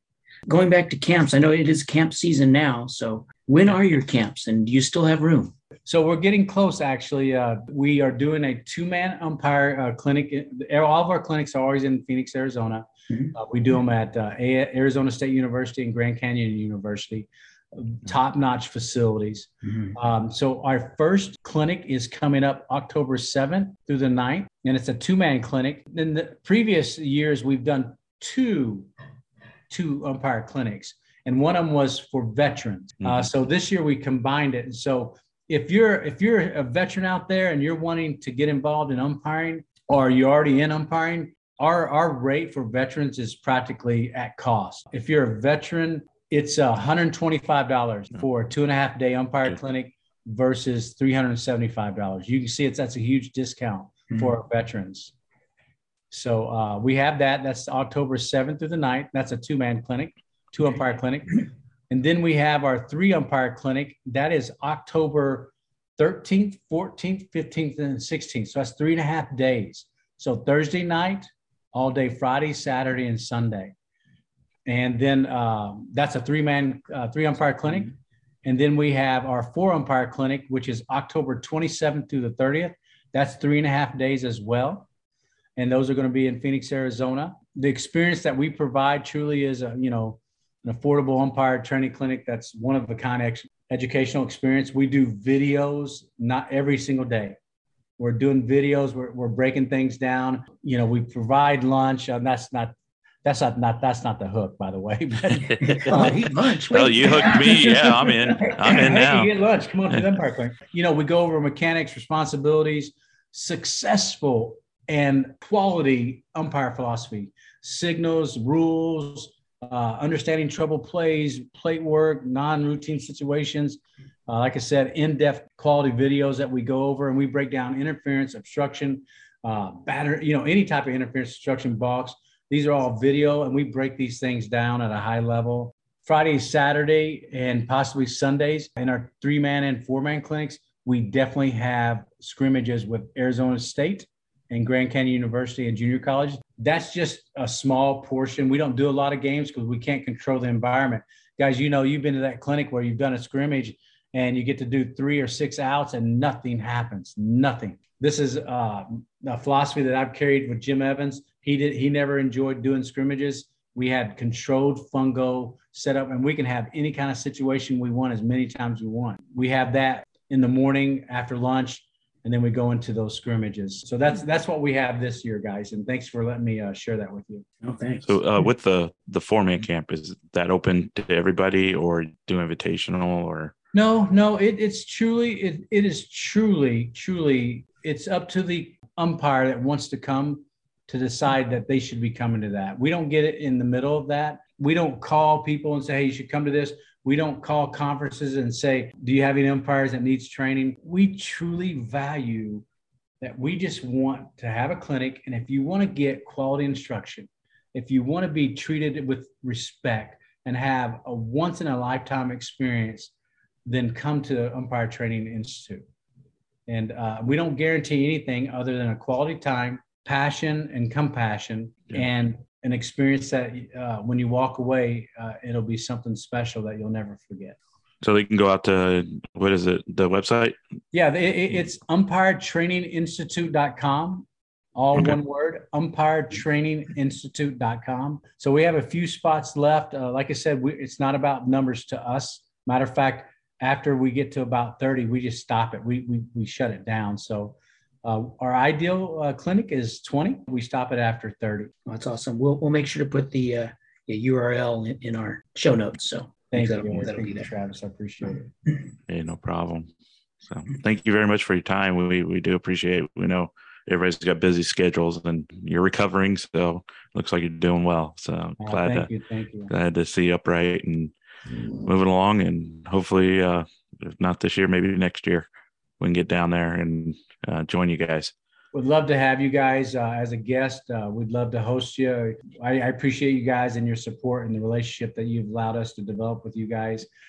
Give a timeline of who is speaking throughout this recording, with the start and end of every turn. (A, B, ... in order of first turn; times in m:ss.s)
0:00.5-0:05.5 A
0:05.9-0:28.9 B
0:29.7-0:55.1 B
0:56.1-1:13.7 B
1:14.7-1:17.9 B
1:18.4-1:24.9 B
1:25.6-1:37.4 B
1:38.0-1:46.3 B
1:45.6-1:48.8 A
1:45.9-1:49.3 C
1:48.4-2:57.5 B
2:57.6-2:58.2 A
2:58.0-3:03.5 C
3:03.7-3:22.6 B
3:23.2-3:33.1 B
3:33.7-3:35.8 B
3:36.7-3:47.6 B
3:48.0-3:50.6 C
3:50.9-4:11.7 B
4:11.9-4:17.5 A
4:16.5-4:18.5 B
4:19.1-4:19.9 C
4:20.5-4:29.1 C
4:28.6-4:29.7 B
4:29.7-4:31.1 C
4:31.8-4:35.5 C
4:36.0-4:38.3 C
4:38.7-4:47.1 B